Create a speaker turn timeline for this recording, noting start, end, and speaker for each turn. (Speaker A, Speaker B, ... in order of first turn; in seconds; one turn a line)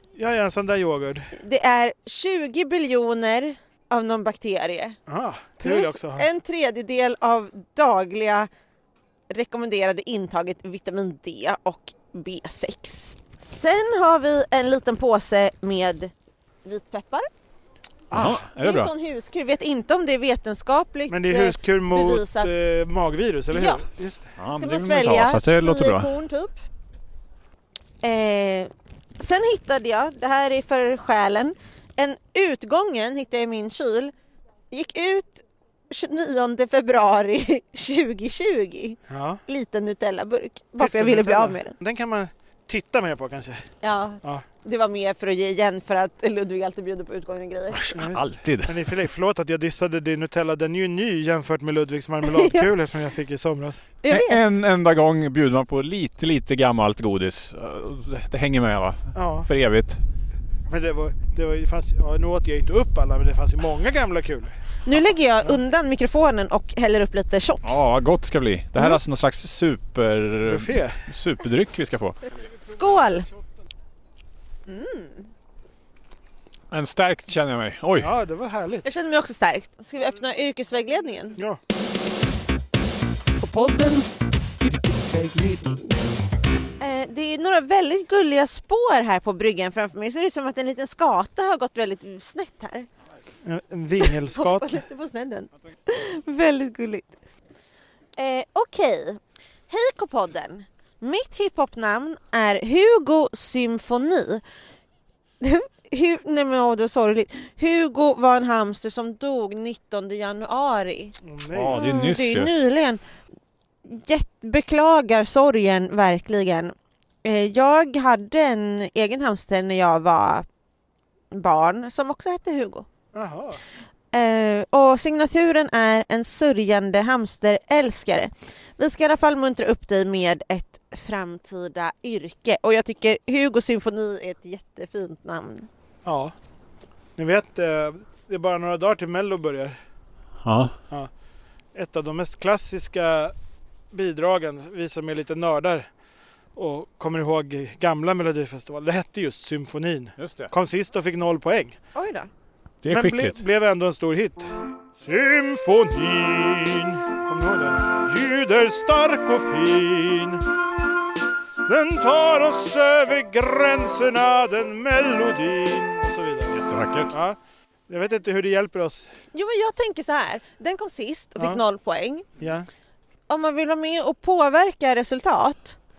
Speaker A: 0.1-1.3
Speaker B: 1.3-5.0
Speaker A: 5.1-6.3
Speaker B: 5.6-8.5
Speaker B: 9.3-16.1
Speaker B: 16.6-17.3
Speaker A: 18.1-18.4
Speaker C: 18.1-18.9
Speaker B: 18.6-22.5
Speaker A: 21.1-24.3
Speaker B: 23.5-23.8
Speaker C: 24.4-26.1
Speaker B: 24.5-26.6
Speaker B: 28.0-34.1
Speaker B: 34.7-41.8
Speaker A: 39.1-39.4
Speaker A: 40.8-43.6
Speaker B: 43.8-47.9
Speaker C: 47.7-48.9
Speaker A: 47.9-53.8
Speaker B: 52.2-52.7
Speaker B: 54.0-54.6
Speaker C: 54.1-60.0
Speaker A: 59.1-59.5
Speaker A: 60.7-64.6
Speaker B: 64.8-67.8
Speaker C: 67.6-72.2
Speaker A: 70.5-71.0
Speaker B: 72.4-73.3
Speaker B: 74.7-75.3
Speaker C: 76.7-78.1
Speaker A: 78.0-78.8
Speaker B: 78.8-81.4
Speaker B: 83.4-84.2
Speaker B: 84.7-85.8
Speaker B: 86.8-92.9
Speaker A: 93.4-94.8
Speaker B: 94.0-97.1
Speaker B: 98.2-104.4
Speaker B: 105.4-111.2
Speaker A: 111.2-111.8
Speaker C: 111.5-112.5
Speaker B: 111.7-113.0
Speaker B: 113.8-120.5
Speaker B: 121.3-122.8
Speaker A: 123.1-123.6
Speaker B: 124.1-135.7
Speaker A: 136.0-136.3
Speaker A: 137.2-139.8
Speaker C: 140.4-140.7
Speaker A: 141.7-143.3
Speaker A: 143.9-145.8
Speaker A: 146.5-151.8
Speaker C: 150.2-150.5
Speaker B: 151.9-152.3
Speaker C: 152.8-153.4
Speaker A: 152.9-160.4
Speaker A: 161.7-166.6
Speaker C: 166.5-167.1
Speaker A: 167.1-167.4
Speaker A: 167.9-169.1
Speaker B: 169.3-172.2
Speaker A: 171.4-171.6
Speaker A: 172.4-172.7
Speaker B: 173.3-175.8